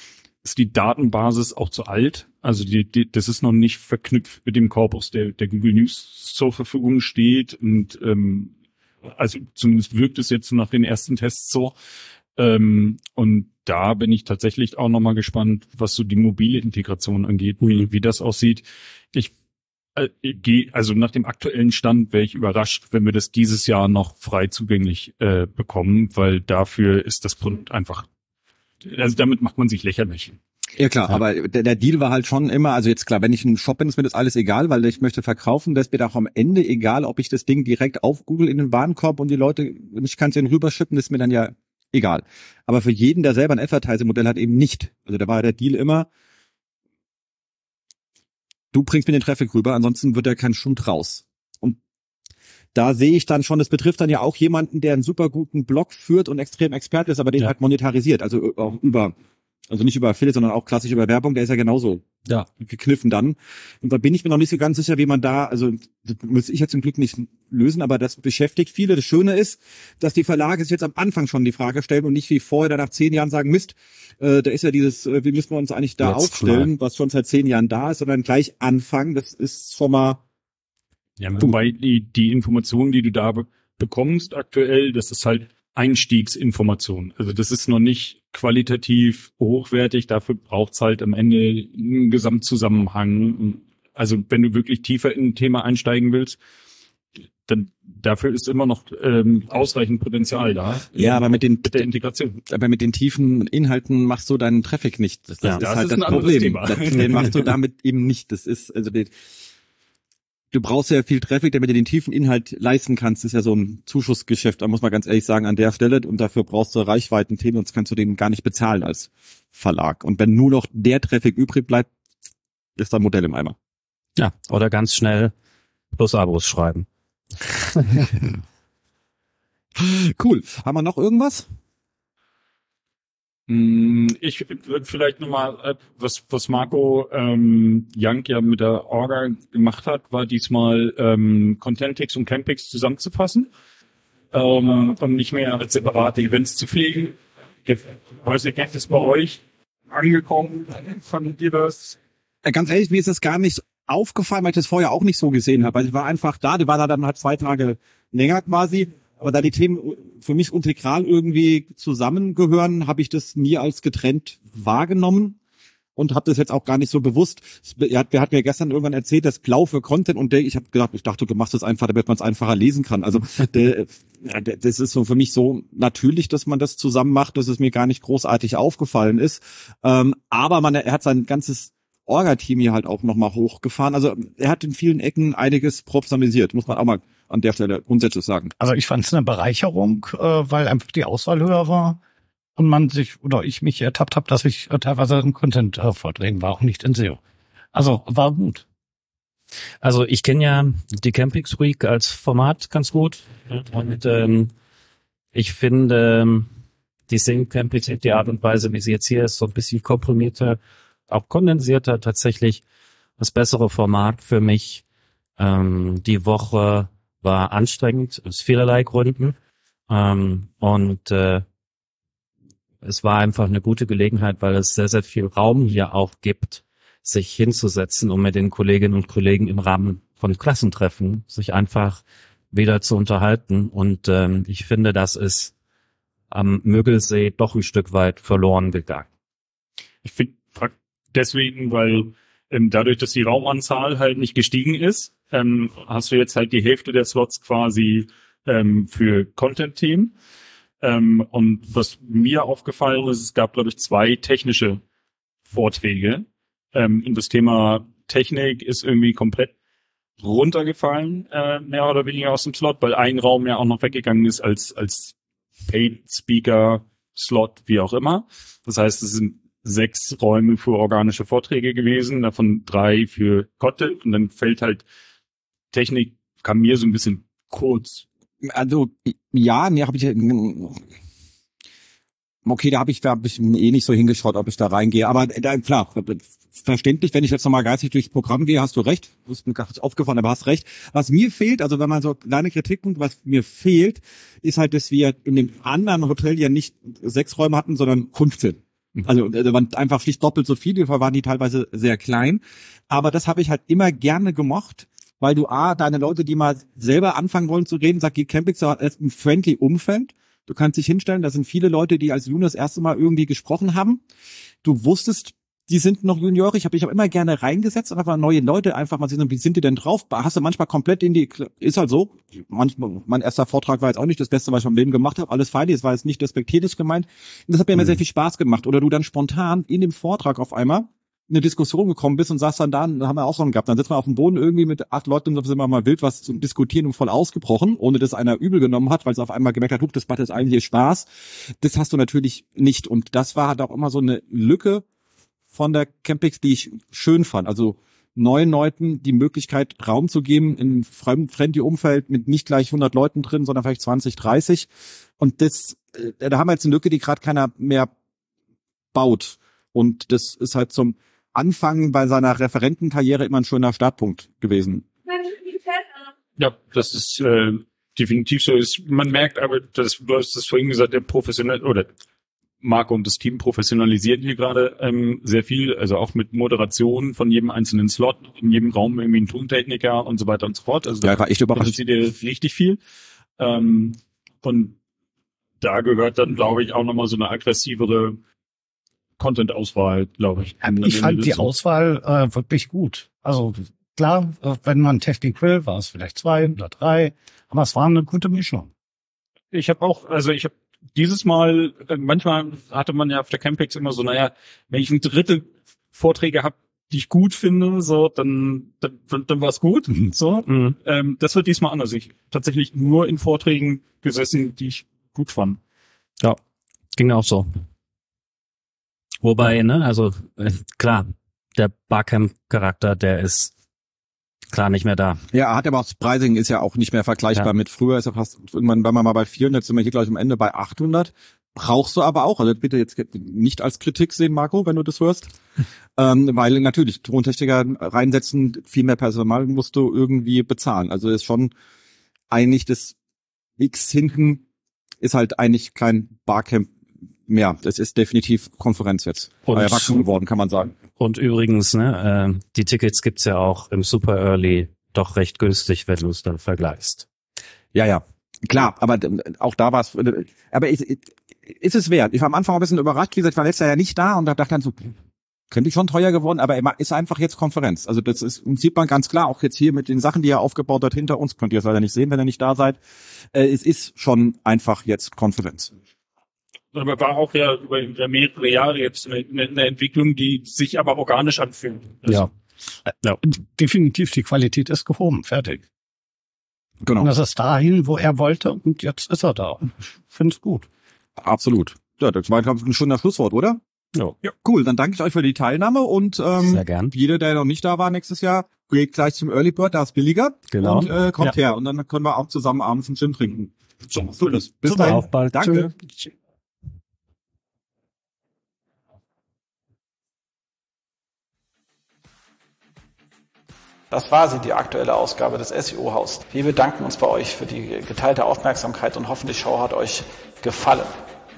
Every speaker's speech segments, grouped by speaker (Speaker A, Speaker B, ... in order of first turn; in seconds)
Speaker A: 0.4-8.5, 9.1-11.7, 12.3-19.3, 19.9-28.1, 28.8-30.4, 81.3-96.4, 97.5-102.4, 105.4-107.5, 133.5-143.5, 144.3-152.0, 240.0-250.1, 250.8-254.8, 255.5-259.5, 260.2-274.8, 275.7-278.1, 366.4-371.9, 372.6-382.8, 383.4-384.8, 385.6-388.2, 389.2-391.5, 399.5-410.1, 410.8-415.6, 476.7-482.3, 503.9-504.4
Speaker B: 30.8-46.1, 48.7-51.8, 52.7-59.1, 59.7-80.2, 101.0-101.9, 102.5-109.1, 110.5-121.9, 122.8-123.5, 129.8-131.5, 152.4-165.4, 165.9-188.5, 278.4-280.8, 282.4-314.0, 314.6-344.8, 345.5-357.9, 358.9-364.9, 381.0-381.8, 425.3-435.3, 436.0-441.5, 442.3-442.9, 443.6-444.4, 445.0-446.7, 447.3-450.8, 457.7-464.9, 465.5-472.8, 473.3-475.7, 486.8-487.1, 491.2-493.6, 494.2-503.5, 504.1-505.7
Speaker C: 76.0-76.7, 124.2-125.3, 125.9-126.9, 127.5-128.0, 199.8-204.5, 205.3-206.5, 207.1-212.6, 213.2-214.8, 215.4-219.3, 219.9-221.4, 222.8-235.5, 236.3-239.1, 410.5-410.8, 416.9-417.6, 419.2-423.5, 424.5-425.2, 449.5-450.0, 451.0-457.1, 496.4-496.9, 500.5-501.3, 504.6-505.7
Speaker D: 188.6-192.0, 192.6-197.2, 197.7-198.6, 390.6-398.7, 410.1-410.4, 483.2-485.6, 487.0-490.6
Speaker E: 513.9-520.9